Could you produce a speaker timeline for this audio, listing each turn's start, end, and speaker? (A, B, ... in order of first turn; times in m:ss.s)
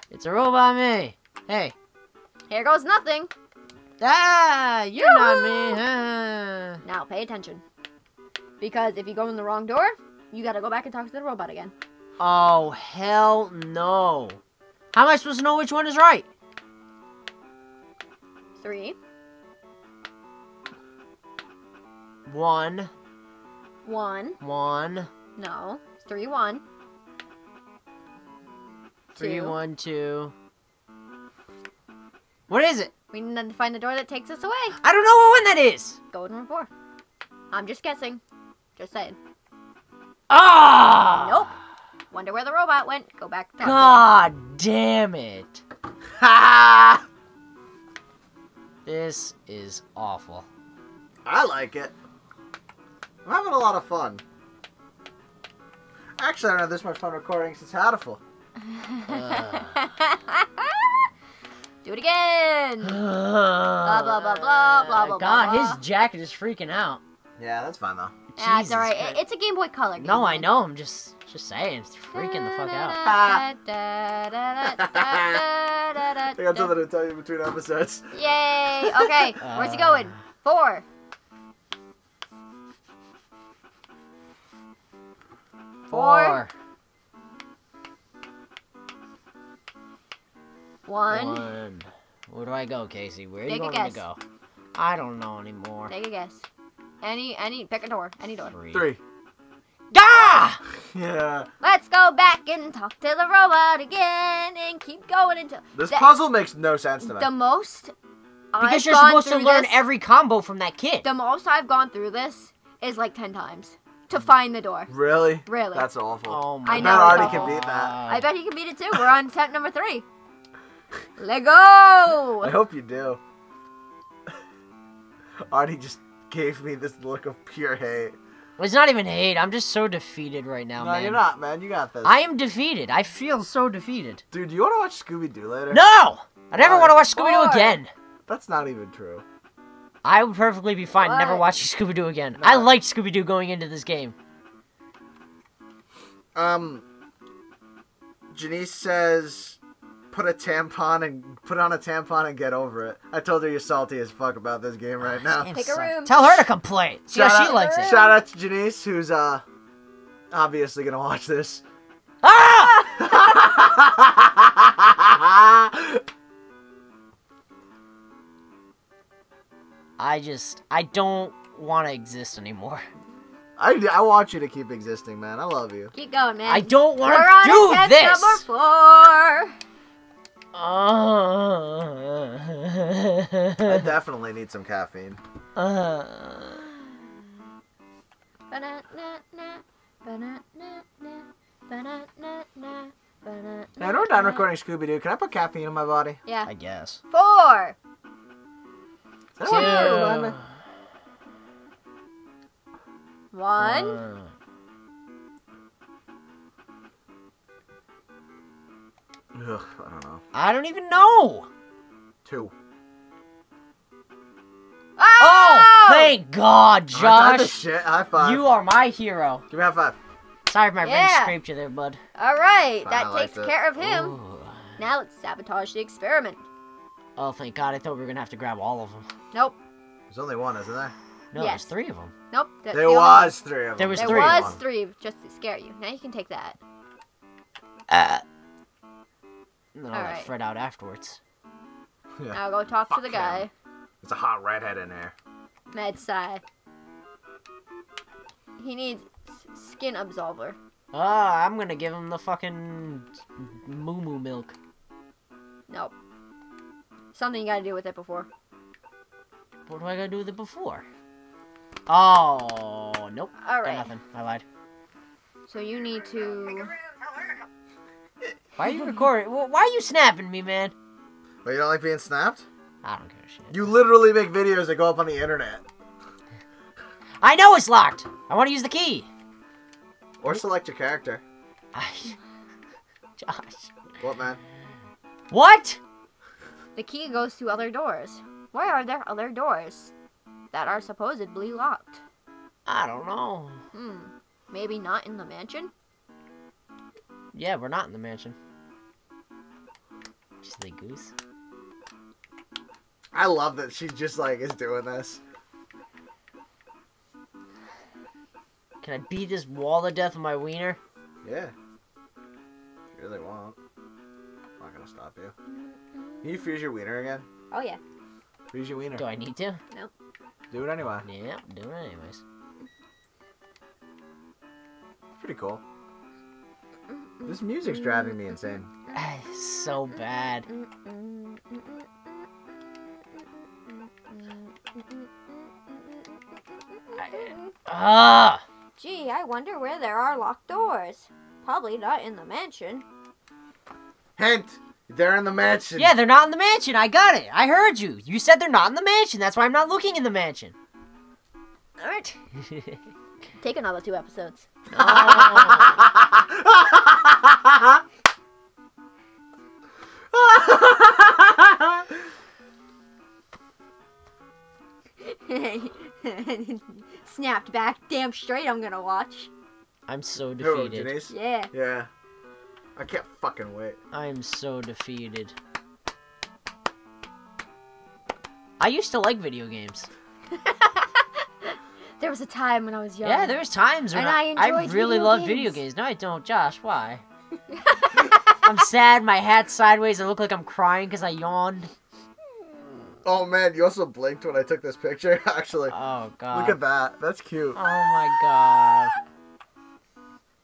0:00.1-0:01.8 A
0:02.5-0:03.3 B
0:04.0-0:06.8 A
0:05.0-0:05.8 B
0:06.8-0:07.6 B
0:08.6-0:11.7 B
0:12.2-0:14.4 A
0:14.9-0:16.3 A
0:18.6-0:19.0 B
0:22.3-0:22.9 A
0:23.8-0:24.4 B
0:24.4-0:25.1 A
0:25.4-0:26.6 B
0:29.2-0:30.3 A
0:29.2-0:29.6 B
0:32.5-0:32.9 A
0:33.1-0:34.8 B
0:34.8-0:36.0 A
0:36.1-0:36.7 B
0:37.5-0:38.2 B
0:38.8-0:39.2 B
0:40.3-0:41.5 A
0:41.1-0:41.5 B
0:42.1-0:44.1 B
0:43.6-0:45.6 A
0:46.2-0:47.0 C
0:48.9-0:50.5 A
0:51.2-0:51.9 C
0:53.2-0:54.2 C
0:56.2-0:58.2 C
0:58.6-1:00.9 B
0:59.1-0:59.9 A
1:01.8-1:03.0 B
1:02.8-1:07.0 A
1:03.8-1:05.8 B
1:07.4-1:08.2 C
1:08.4-1:09.2 A
1:08.4-1:10.5 B
1:10.0-1:13.0 A
1:12.1-1:16.7 B
1:13.0-1:13.4 C
1:14.8-1:15.4 C
1:16.3-1:18.1 C
1:18.1-1:20.8 B
1:18.9-1:19.2 C
1:19.4-1:20.1 A
1:25.9-1:26.5 A
1:25.9-1:26.4 B
1:30.9-1:31.5 B
1:31.1-1:34.2 A
1:33.4-1:34.0 B
1:34.8-1:35.9 A
1:35.9-1:36.5 B
1:37.0-1:38.6 B
1:38.5-1:38.9 A
1:38.7-1:39.0 C
1:39.9-1:40.6 A
1:40.8-1:41.5 C
1:41.6-1:46.2 B
1:45.7-1:47.3 C
1:47.0-1:47.9 B
1:48.5-1:49.8 B
1:48.6-1:51.1 A
1:51.0-1:54.9 B
1:54.9-1:58.0 C
1:55.4-1:55.9 B
1:56.3-1:58.3 A
1:56.7-2:00.1 B
2:01.2-2:02.5 B
2:02.4-2:03.2 C
2:05.5-2:08.2 C
2:08.6-2:11.2 A
2:10.8-2:12.2 C
2:12.0-2:14.2 A
2:14.3-2:15.8 C
2:15.7-2:17.9 A
2:16.5-2:17.0 C
2:17.1-2:17.8 B
2:18.3-2:19.2 C
2:20.0-2:24.2 A
2:20.9-2:21.6 B
2:22.4-2:22.7 C
2:26.4-2:26.8 C
2:28.3-2:29.6 C
2:30.1-2:35.5 C
2:35.0-2:38.0 A
2:35.5-2:36.4 B
2:37.1-2:39.4 C
2:37.3-2:38.2 B
2:40.3-2:41.6 C
2:42.2-2:43.1 A
2:42.5-2:43.0 B
2:43.0-2:46.0 C
2:50.0-2:52.8 A
2:53.6-2:55.9 C
2:55.9-2:59.6 B
2:56.5-2:58.4 A
3:00.5-3:03.9 A
3:03.7-3:05.2 C
3:05.6-3:06.6 A
3:08.5-3:14.5 B
3:13.8-3:16.2 C
3:16.3-3:16.5 B
3:16.5-3:17.0 A
3:17.1-3:17.8 B
3:19.4-3:20.4 C
3:19.4-3:20.4 A
3:19.4-3:20.2 B
3:23.3-3:24.0 B
3:23.6-3:24.3 A
3:29.3-3:30.2 C
3:30.3-3:31.5 A
3:32.2-3:32.5 C
3:35.0-3:36.2 B
3:35.2-3:37.6 A
3:36.9-3:38.5 C
3:38.2-3:39.4 A
3:39.5-3:40.0 C
3:40.5-3:42.0 A
3:40.8-3:41.4 B
3:42.2-3:44.2 B
3:42.8-3:43.5 C
3:43.8-3:44.6 A
3:44.8-3:46.4 B
3:47.2-3:49.1 A
3:50.1-3:50.9 C
3:51.3-3:52.1 A
3:51.4-3:51.7 B
3:52.3-3:53.4 B
3:52.7-3:54.6 C
3:53.8-3:54.6 A
3:54.0-3:56.6 B
3:57.9-3:58.2 A
3:59.8-4:01.2 A
3:59.9-4:00.3 B
4:02.3-4:03.5 B
4:02.9-4:03.5 C
4:04.0-4:05.1 C
4:05.7-4:06.4 B
4:08.6-4:10.6 B
4:10.9-4:14.6 A
4:15.7-4:15.9 B
4:17.1-4:18.3 B
4:19.7-4:20.8 A
4:21.9-4:24.4 A
4:23.4-4:23.9 B
4:25.5-4:26.7 B
4:28.6-4:30.7 A
4:31.4-4:32.4 C
4:32.8-4:33.7 A
4:33.5-4:35.6 C
4:37.2-4:39.1 A
4:40.2-4:41.2 C
4:41.8-4:42.2 A
4:43.2-4:43.7 A
4:44.0-4:44.4 C
4:45.3-4:45.8 A
4:46.8-4:49.9 B
4:50.5-4:52.0 B
4:52.7-4:53.6 A
4:53.7-4:55.7 B
4:57.3-4:58.4 A
5:00.4-5:01.1 A
5:03.1-5:05.2 C
5:08.8-5:10.8 A
5:11.2-5:11.5 C
5:12.9-5:13.6 C
5:14.6-5:15.3 C
5:15.5-5:16.5 B
5:16.2-5:17.3 C
5:17.5-5:17.8 B
5:18.5-5:19.1 C
5:19.0-5:19.6 A
5:20.5-5:21.1 C
5:21.0-5:22.2 A
5:25.2-5:25.6 C
5:26.9-5:29.0 B
5:27.3-5:28.7 C
5:28.9-5:30.5 A
5:30.5-5:37.5 B
5:37.0-5:38.4 A
5:38.8-5:42.8 B
5:44.2-5:46.0 C
5:45.8-5:50.5 A
5:51.8-5:52.8 A
5:53.4-5:54.5 B
5:54.7-5:55.8 A
5:54.8-5:57.6 C
6:00.1-6:01.8 C
6:05.0-6:09.3 B
6:09.9-6:11.0 A
6:10.4-6:11.9 C
6:11.1-6:11.5 B
6:12.8-6:13.8 C
6:13.9-6:15.3 A
6:18.6-6:19.9 A
6:20.3-6:25.6 B
6:23.0-6:27.0 A
6:27.5-6:28.4 B
6:28.4-6:31.7 A
6:33.0-6:35.7 C
6:35.7-6:36.6 A
6:36.3-6:37.6 C
6:37.6-6:39.0 A